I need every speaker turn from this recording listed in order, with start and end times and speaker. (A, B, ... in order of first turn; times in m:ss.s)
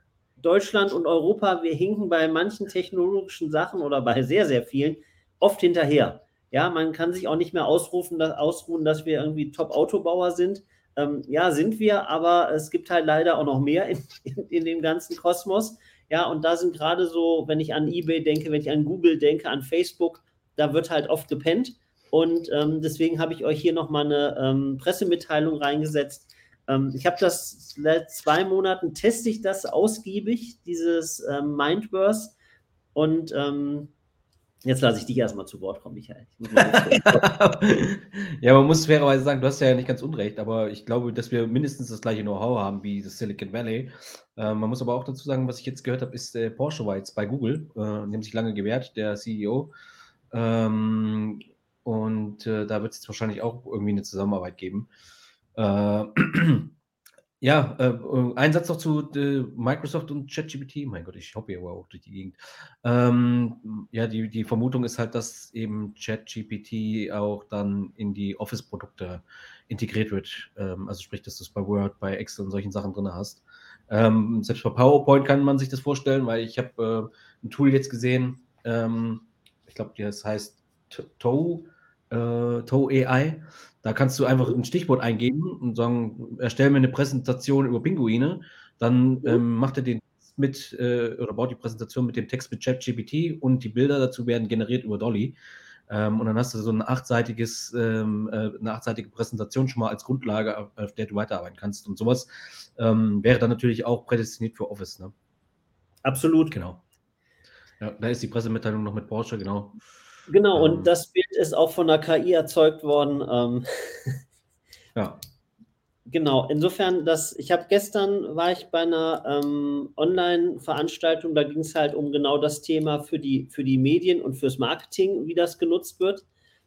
0:00.4-0:32.4 A
0:32.9-0:33.9 A
0:34.6-0:37.2 A
0:36.7-0:49.7 B
0:50.3-0:54.9 B
0:55.6-0:56.7 B
0:57.4-1:35.4 B
1:35.9-1:45.1 B
1:46.0-1:46.6 A
1:46.5-1:46.8 B
1:47.8-1:49.8 B
1:50.3-1:54.2 A
1:50.5-1:50.9 B
1:54.9-1:55.2 B
1:56.1-2:06.2 A